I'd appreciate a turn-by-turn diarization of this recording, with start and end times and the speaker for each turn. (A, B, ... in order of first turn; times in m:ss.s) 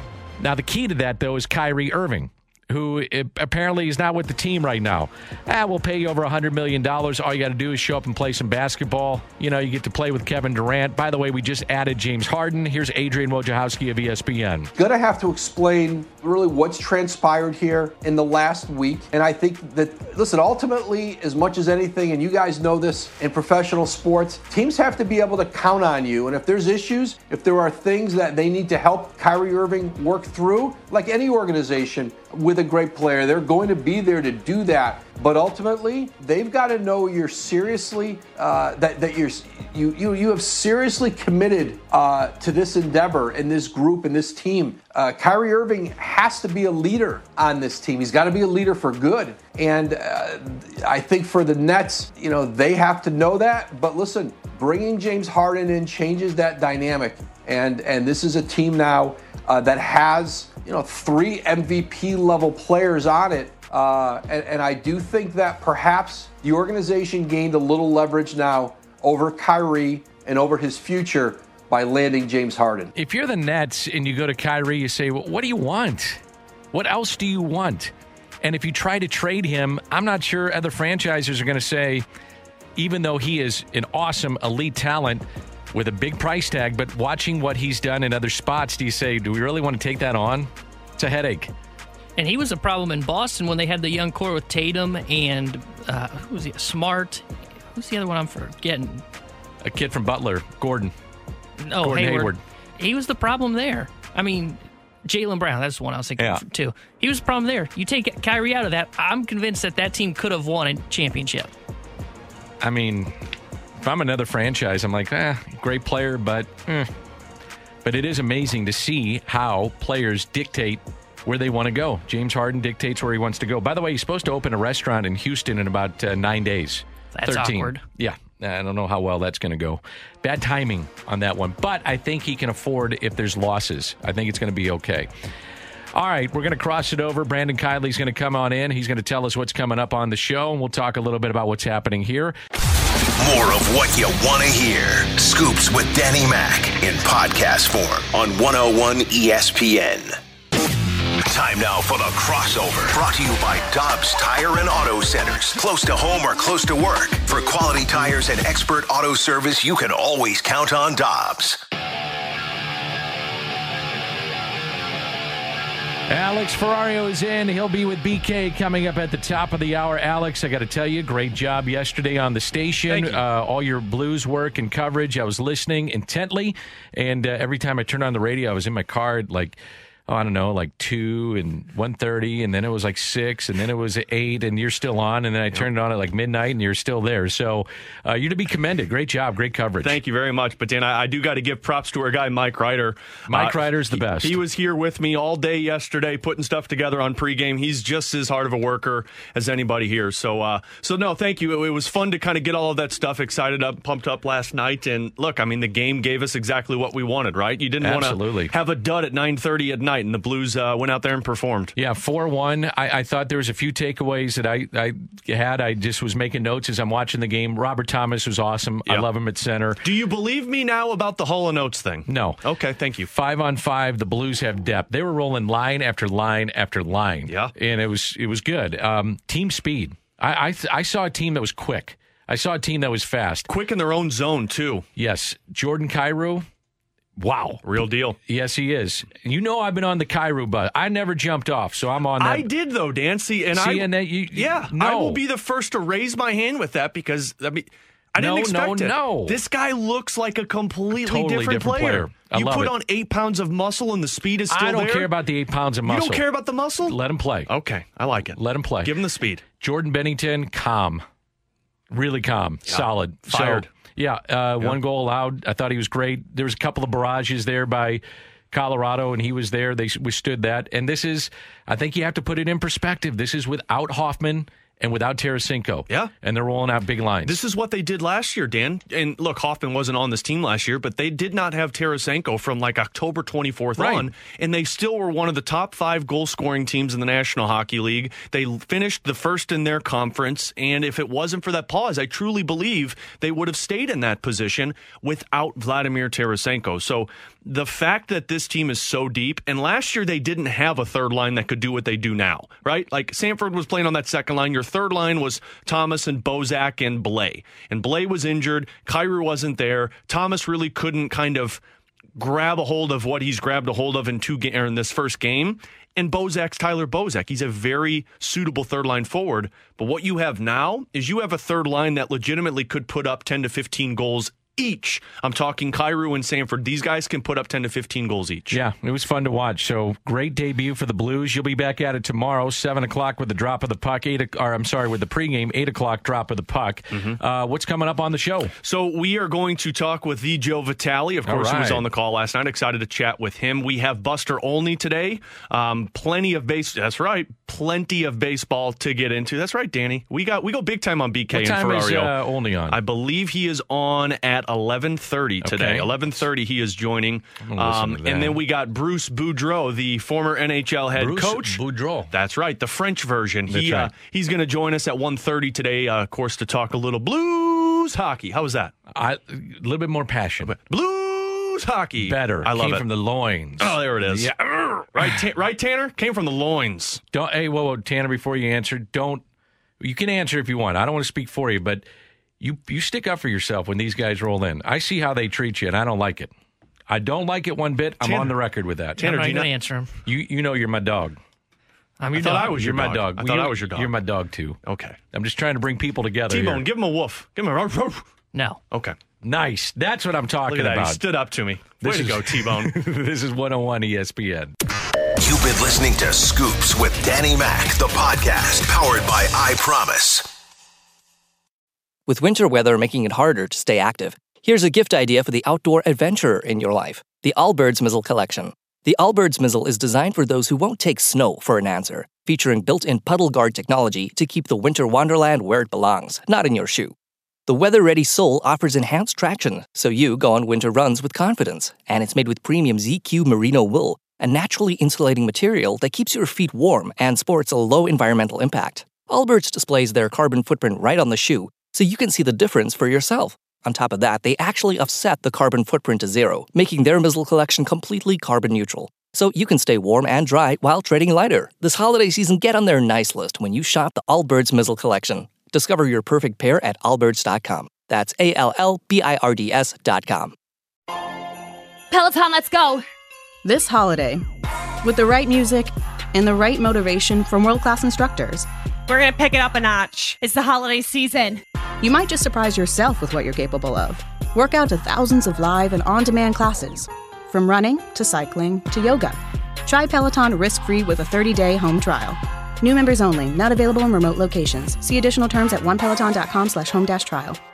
0:00.4-0:14.7 A
0:14.8-1:12.9 B
1:12.9-1:16.2 A
1:16.7-1:17.9 A
1:18.4-1:22.0 A
1:22.8-1:31.5 A
1:32.2-1:39.0 C
1:39.6-1:40.9 A
1:41.6-1:51.5 C
1:41.8-1:42.4 A
1:52.6-1:53.1 A
1:53.8-1:56.9 A
1:57.8-2:15.1 A
2:07.1-2:07.8 C
2:15.9-2:22.3 A
2:23.2-2:30.2 D
2:31.2-2:41.6 D
2:46.1-2:59.6 A
3:00.1-3:10.0 A
3:09.8-3:31.7 E
3:13.3-3:14.4 A
3:27.8-3:28.5 A
3:31.8-3:39.9 A
3:39.8-3:43.1 E
3:42.1-3:42.4 A
3:43.1-3:53.5 A
3:47.3-3:47.5 E
3:53.5-3:54.8 E
3:55.0-3:56.4 A
3:57.2-3:57.7 A
3:57.6-3:58.2 E
3:58.2-4:02.5 A
4:02.2-4:15.1 E
4:03.5-4:05.2 A
4:08.2-4:09.4 A
4:11.0-4:12.7 A
4:14.5-4:16.2 A
4:15.8-4:17.0 E
4:16.8-4:17.5 A
4:17.5-4:19.4 E
4:18.4-4:18.9 A
4:19.6-4:21.0 A
4:21.9-4:37.4 A
4:22.7-4:23.7 E
4:37.2-5:11.6 E
4:43.8-4:44.1 A
5:12.2-5:28.6 E
5:28.5-5:38.5 A
5:38.6-5:52.1 E
5:41.2-5:41.8 A
5:51.3-5:52.8 A
5:52.7-6:01.6 E
5:55.4-5:56.2 A
5:57.5-5:58.4 A
6:01.0-6:02.1 A
6:02.1-6:08.7 E
6:03.5-6:03.9 A
6:08.9-6:10.5 A
6:10.4-6:12.8 E
6:12.0-6:15.2 A
6:13.6-6:14.3 E
6:14.9-6:17.0 E
6:17.1-6:19.2 A
6:19.8-6:21.8 A
6:22.4-6:26.3 A
6:26.9-6:29.3 A
6:28.0-6:28.4 E
6:29.0-6:29.5 E
6:29.0-6:29.9 C
6:30.1-6:31.2 A
6:32.0-6:32.6 C
6:32.1-6:34.6 A
6:32.2-6:33.9 E
6:34.6-6:35.0 E
6:35.1-6:36.6 A
6:36.3-6:38.0 E
6:38.3-6:38.6 C
6:39.2-6:41.0 A
6:40.4-6:42.7 E
6:41.6-6:44.5 A
6:45.2-6:50.3 D
6:52.1-7:06.9 F
7:07.5-7:40.3 F
7:41.9-7:42.8 G
7:43.4-7:44.2 H
7:44.8-7:48.5 H
7:48.9-7:51.4 G
7:51.8-8:07.4 H